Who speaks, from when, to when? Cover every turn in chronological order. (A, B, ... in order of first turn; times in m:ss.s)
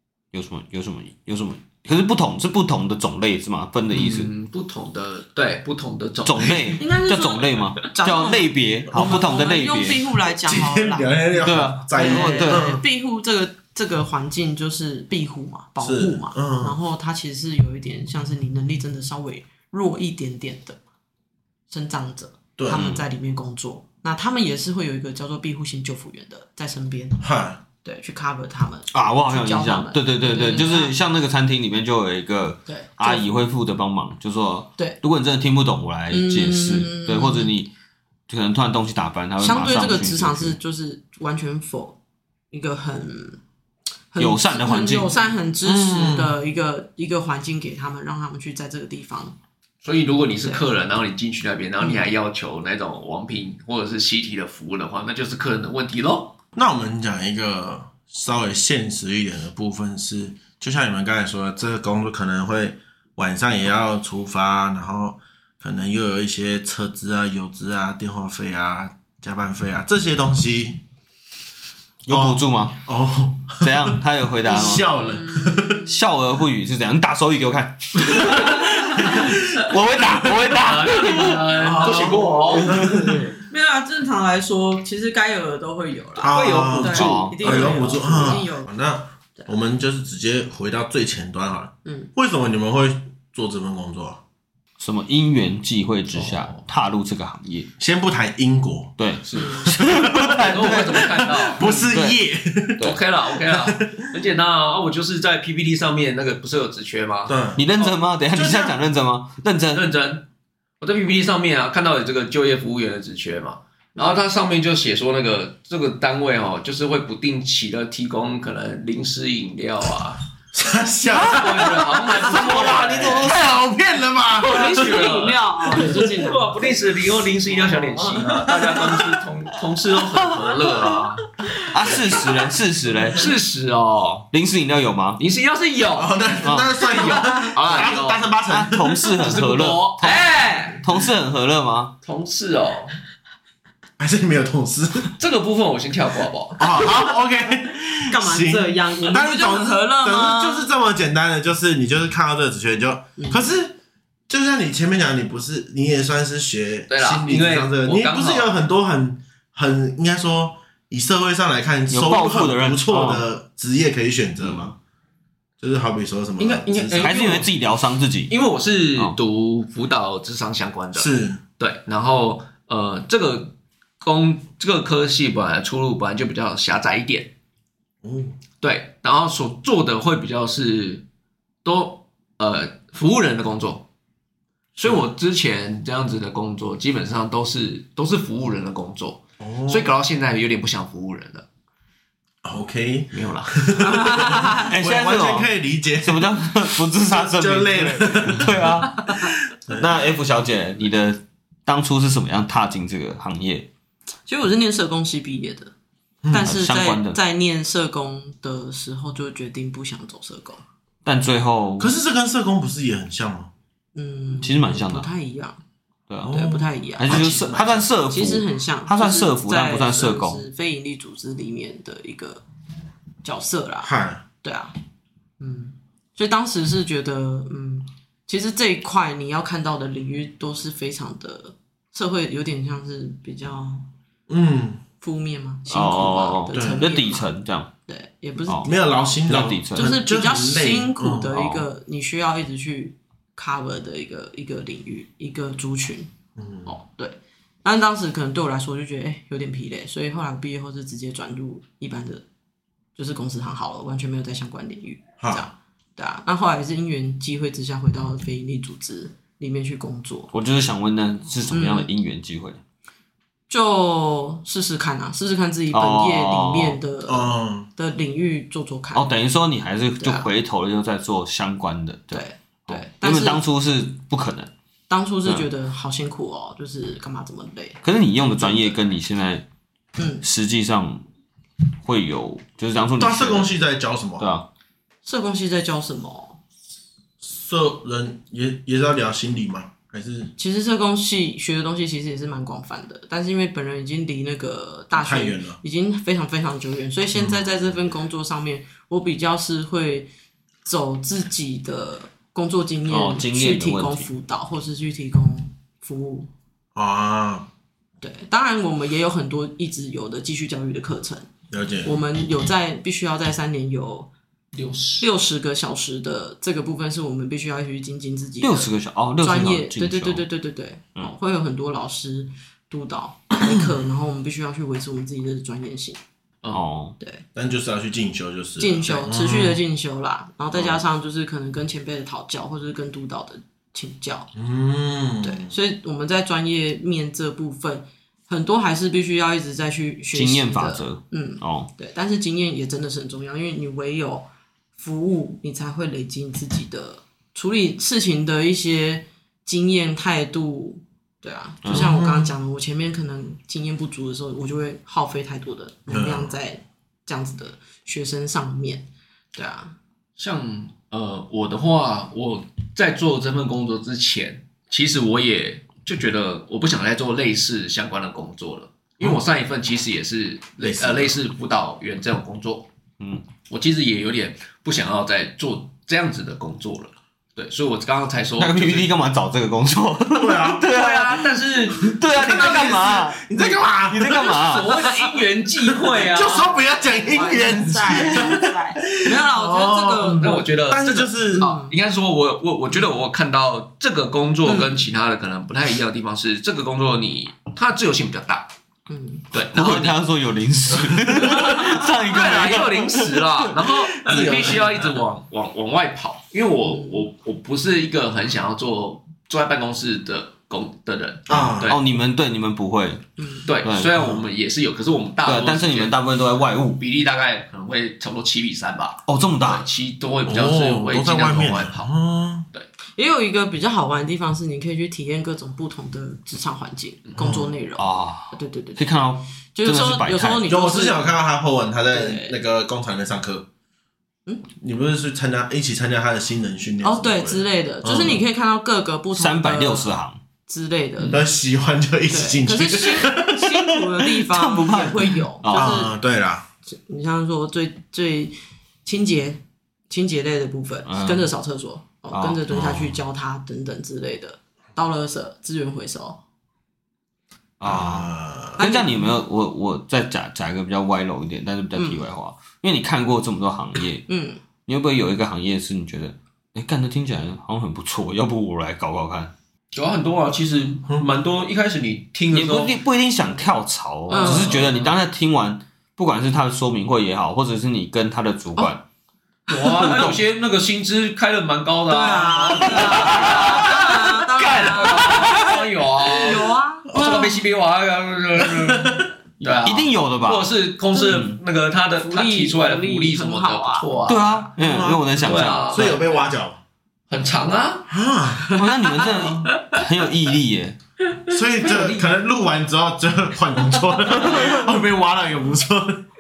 0:00.3-0:04.3 A
0:03.9-0:06.8 B
0:06.2-0:10.1 A
0:06.8-0:11.2 C
0:10.2-0:12.8 D
0:11.4-0:12.8 A
0:11.9-0:20.8 C
0:15.8-0:16.8 D
0:21.7-0:27.2 C
0:22.6-0:23.0 D
0:22.7-0:23.0 A
0:27.2-0:27.6 D
0:27.8-0:30.9 C
0:28.9-0:37.7 A
0:32.7-0:33.3 C
0:36.1-0:37.5 C
0:38.3-0:40.6 A
0:39.4-0:42.0 C
0:42.5-0:43.4 C
0:44.1-0:49.4 C
0:44.2-0:45.2 A
0:45.6-0:46.4 D
0:49.8-0:56.4 B
0:51.8-0:52.1 C
0:56.6-1:10.8 D
1:12.1-1:12.8 A
1:12.1-1:15.9 D
1:13.6-1:14.9 A
1:14.9-1:15.9 C
1:15.8-1:23.3 A
1:19.0-1:19.4 D
1:20.5-1:22.8 B
1:21.5-1:23.3 D
1:23.4-1:28.7 C
1:26.2-1:34.2 D
1:26.2-1:28.3 B
1:26.9-1:27.7 A
1:34.8-1:37.7 A
1:36.1-1:36.6 B
1:37.8-1:44.2 D
1:39.0-1:42.2 A
1:39.3-1:39.7 C
1:40.2-1:41.9 B
1:42.8-1:47.9 B
1:47.3-1:47.7 D
1:47.6-1:49.9 A
1:48.3-1:48.8 D
1:49.7-1:50.3 B
1:50.8-2:00.2 B
2:00.5-2:05.0 D
2:01.1-2:03.4 B
2:02.4-2:03.3 A
2:04.4-2:11.2 B
2:04.4-2:06.8 C
2:05.7-2:06.0 D
2:08.5-2:09.2 D
2:11.7-2:13.3 A
2:11.9-2:12.2 B
2:13.0-2:14.3 B
2:14.3-2:15.2 A
2:15.2-2:16.2 B
2:16.0-2:19.2 D
2:16.4-2:16.8 A
2:16.8-2:18.3 B
2:18.5-2:21.9 A
2:19.1-2:20.4 B
2:20.0-2:20.8 C
2:22.0-2:23.0 B
2:24.0-2:25.1 D
2:25.2-2:26.6 B
2:26.6-2:33.8 D
2:28.1-2:30.7 C
2:33.2-2:33.4 C
2:34.3-2:44.7 D
2:36.9-2:38.6 B
2:41.9-2:43.2 A
2:45.6-2:47.2 D
2:46.4-2:47.5 B
2:47.0-2:48.3 A
2:48.3-2:57.3 B
2:50.9-2:51.4 D
2:58.0-2:58.4 D
2:58.6-3:01.0 B
3:01.6-3:03.9 B
3:04.8-3:11.5 B
3:09.4-3:09.9 D
3:12.4-3:19.9 D
3:13.1-3:13.8 B
3:13.8-3:14.7 C
3:14.6-3:23.7 A
3:24.3-3:25.7 C
3:26.2-3:26.5 D
3:26.3-3:30.6 C
3:26.4-3:27.2 A
3:31.0-3:31.9 A
3:31.8-3:33.5 D
3:34.0-3:35.6 C
3:34.4-3:35.1 A
3:36.1-3:36.4 A
3:36.2-3:37.6 D
3:36.3-3:37.5 C
3:37.0-3:40.4 A
3:37.2-3:37.8 B
3:38.1-3:42.4 C
3:43.2-3:44.8 C
3:43.8-3:44.2 D
3:45.4-3:53.9 C
3:54.3-3:54.8 D
3:55.0-3:57.3 C
3:55.7-3:57.7 A
3:56.5-3:56.9 D
3:57.9-3:58.8 C
3:58.6-4:01.4 D
3:59.3-4:00.0 A
3:59.7-4:06.1 C
4:01.3-4:01.7 A
4:06.4-4:06.7 D
4:06.7-4:12.2 C
4:13.0-4:20.3 C
4:15.2-4:15.5 D
4:20.3-4:22.6 A
4:21.5-4:21.9 C
4:23.5-4:29.2 C
4:25.7-4:26.8 A
4:27.1-4:27.7 D
4:28.9-4:34.5 A
4:30.0-4:30.3 C
4:32.1-4:33.4 C
4:34.9-4:38.8 C
4:37.8-4:39.4 A
4:40.0-4:40.2 C
4:40.2-4:41.0 A
4:41.8-4:43.6 A
4:43.0-4:44.3 D
4:44.2-4:44.5 A
4:45.0-4:46.4 C
4:47.2-4:50.3 D
4:50.4-5:00.1 C
4:54.9-4:55.6 D
4:57.2-4:57.5 D
5:00.6-5:06.3 C
5:02.9-5:04.1 A
5:06.8-5:07.5 D
5:08.0-5:11.3 C
5:11.5-5:12.0 D
5:11.8-5:14.1 C
5:14.5-5:15.0 B
5:15.0-5:26.0 C
5:18.4-5:20.3 A
5:26.5-5:27.0 A
5:27.4-5:29.6 D
5:28.6-5:34.3 C
5:30.5-5:30.8 A
5:34.3-5:35.6 D
5:35.2-5:59.7 C
5:40.1-5:41.7 A
5:51.6-5:51.9 A
5:51.7-5:52.4 D
5:55.9-5:56.4 D
6:00.2-6:12.7 B
6:10.6-6:11.2 D
6:13.0-6:13.3 A
6:13.4-6:18.9 B
6:18.4-6:24.7 A
6:20.1-6:20.7 D
6:20.7-6:22.9 B
6:22.1-6:24.9 D
6:24.3-6:26.6 B
6:25.8-6:31.5 D
6:26.3-6:30.4 C
6:27.9-6:28.4 A
6:30.2-6:38.5 B
6:31.4-6:31.7 C
6:34.5-6:34.8 C
6:38.9-6:39.3 C
6:39.3-6:40.0 B
6:39.5-6:43.4 A
6:40.8-6:51.8 B
6:44.0-6:44.9 D
6:46.7-6:47.0 C
6:51.3-6:51.8 D
6:51.3-6:53.0 A
6:53.2-6:53.5 C
6:53.5-6:56.0 B
6:53.6-6:54.0 A
6:54.0-6:54.2 D
6:55.2-6:56.8 A
6:56.8-7:01.9 B
6:59.1-6:59.6 A
7:00.3-7:02.5 D
7:03.0-7:08.9 C
7:07.2-7:07.5 D
7:07.8-7:10.6 A
7:09.5-7:11.1 C
7:10.5-7:13.5 D
7:11.9-7:12.4 C
7:14.6-7:18.2 D
7:16.8-7:20.0 C
7:19.2-7:20.2 A
7:20.5-7:21.2 C
7:21.1-7:23.8 D
7:22.1-7:26.0 C
7:24.1-7:25.8 A
7:25.5-7:26.5 D
7:26.7-7:36.2 C
7:30.8-7:31.3 A
7:32.1-7:32.8 A
7:32.5-7:32.9 D
7:37.6-7:44.1 A
7:37.6-7:38.6 D
7:38.6-7:39.1 C
7:41.8-7:42.0 C
7:44.1-7:44.4 C
7:44.6-7:49.3 A
7:49.7-7:52.8 B
7:52.3-7:58.8 A
7:54.1-7:54.6 C
7:54.1-7:55.0 B
7:59.5-8:14.5 B
7:59.6-8:00.2 A
7:59.6-8:00.1 C
8:01.9-8:07.4 C
8:02.6-8:04.0 A
8:04.7-8:05.4 A
8:06.9-8:07.2 D
8:08.4-8:09.1 D
8:09.6-8:11.4 A
8:10.9-8:11.2 C
8:12.0-8:13.9 C
8:14.1-8:16.0 A
8:14.6-8:16.6 D
8:15.2-8:16.0 B
8:17.1-8:17.9 B
8:17.9-8:19.5 D
8:18.4-8:19.0 C
8:18.5-8:20.8 A
8:19.3-8:19.6 B
8:21.3-8:26.1 D
8:21.6-8:22.1 C
8:21.7-8:22.0 B
8:24.3-8:24.5 C